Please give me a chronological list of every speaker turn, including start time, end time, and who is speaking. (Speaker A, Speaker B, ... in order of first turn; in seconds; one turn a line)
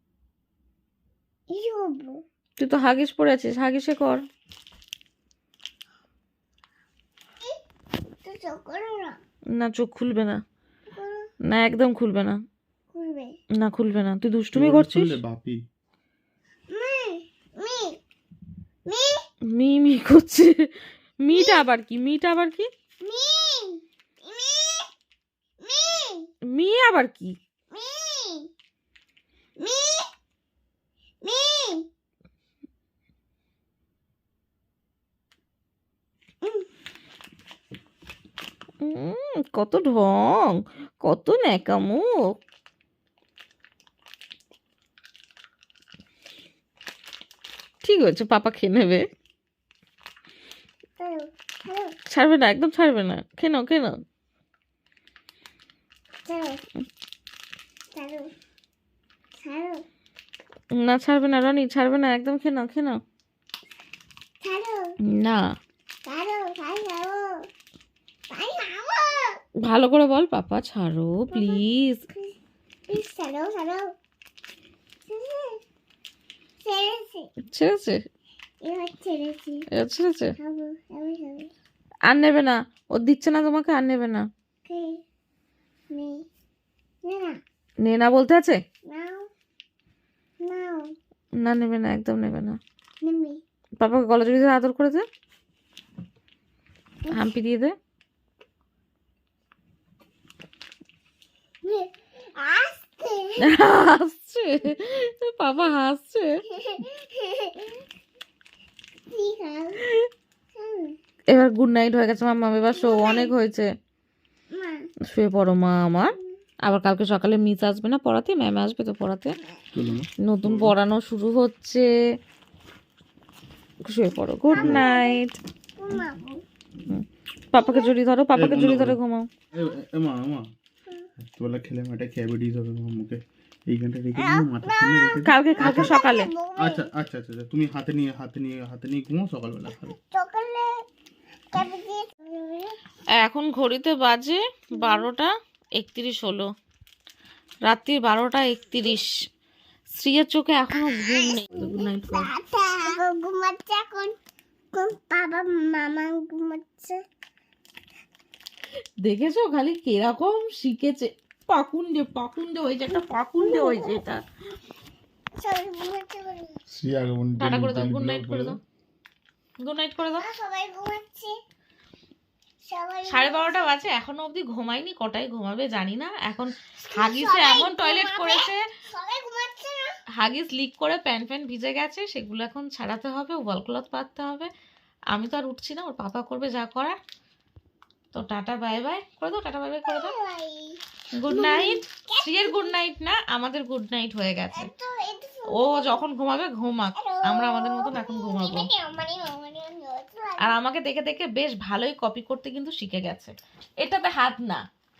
Speaker A: 1.5-2.2
Speaker B: 2.6-4.2
Speaker A: 8.2-9.2
Speaker B: 9.5-10.4
Speaker A: 10.9-11.3
Speaker B: 11.4-12.4
Speaker A: 12.9-13.3
Speaker B: 13.5-15.2
Speaker C: 14.5-15.6
Speaker A: 16.7-18.0
Speaker A: 18.9-19.2
Speaker B: 19.4-22.7
Speaker A: 21.3-21.6
Speaker A: 23.0-24.9
Speaker A: 25.6-26.3
Speaker B: 26.4-27.4
Speaker A: 27.7-28.5
Speaker A: 29.6-30.1
Speaker A: 31.2-31.9
Speaker A: 36.4-36.7
Speaker B: 38.8-42.2
Speaker B: 47.8-49.0
Speaker A: 51.0-51.9
Speaker B: 52.1-54.0
Speaker A: 56.2-56.6
Speaker A: 57.9-58.3
Speaker A: 59.4-59.8
Speaker B: 60.7-63.0
Speaker A: 64.4-64.9
Speaker B: 65.0-65.4
Speaker A: 66.0-67.5
Speaker A: 68.3-69.4
Speaker B: 69.6-72.0
Speaker A: 71.3-72.3
Speaker A: 72.9-73.9
Speaker A: 75.1-75.6
Speaker A: 76.6-77.3
Speaker B: 77.5-78.0
Speaker A: 78.6-79.6
Speaker B: 79.7-80.3
Speaker A: 80.4-81.5
Speaker B: 82.0-84.2
Speaker A: 84.6-85.0
Speaker A: 85.9-86.2
Speaker A: 87.0-87.4
Speaker B: 87.8-88.6
Speaker A: 88.9-89.3
Speaker A: 90.4-90.8
Speaker B: 91.4-92.6
Speaker A: 93.0-93.4
Speaker B: 93.8-95.0
Speaker B: 97.1-97.7
Speaker A: 101.6-103.5
Speaker B: 103.4-106.4
Speaker A: 106.5-107.8
Speaker A: 109.1-109.8
Speaker A: 110.6-111.0
Speaker B: 111.3-113.7
Speaker A: 112.7-113.3
Speaker A: 114.5-114.8
Speaker B: 115.0-119.3
Speaker C: 119.7-120.7
Speaker B: 120.2-121.9
Speaker B: 123.8-125.3
Speaker A: 124.5-125.2
Speaker C: 124.6-124.9
Speaker A: 125.8-126.4
Speaker B: 126.9-129.3
Speaker A: 127.5-127.9
Speaker C: 128.3-129.0
Speaker C: 129.5-130.4
Speaker C: 131.2-136.0
Speaker A: 134.1-136.9
Speaker B: 135.2-136.3
Speaker C: 136.6-139.9
Speaker A: 139.8-140.7
Speaker A: 141.5-142.7
Speaker B: 143.2-146.5
Speaker A: 144.8-145.1
Speaker B: 147.7-149.1
Speaker B: 149.9-152.3
Speaker A: 150.9-154.2
Speaker A: 154.7-157.0
Speaker B: 159.0-164.2
Speaker A: 163.4-164.0
Speaker A: 165.4-166.6
Speaker C: 166.7-168.5
Speaker B: 167.3-168.6
Speaker B: 169.6-170.3
Speaker A: 170.1-171.3
Speaker A: 172.6-173.7
Speaker B: 173.1-178.6
Speaker A: 176.8-179.9
Speaker B: 180.1-184.5
Speaker B: 185.1-187.0
Speaker B: 188.1-190.1
Speaker A: 189.8-192.8
Speaker B: 191.1-194.7
Speaker A: 194.5-196.1
Speaker B: 195.5-198.7
Speaker A: 197.0-200.6
Speaker B: 200.4-204.6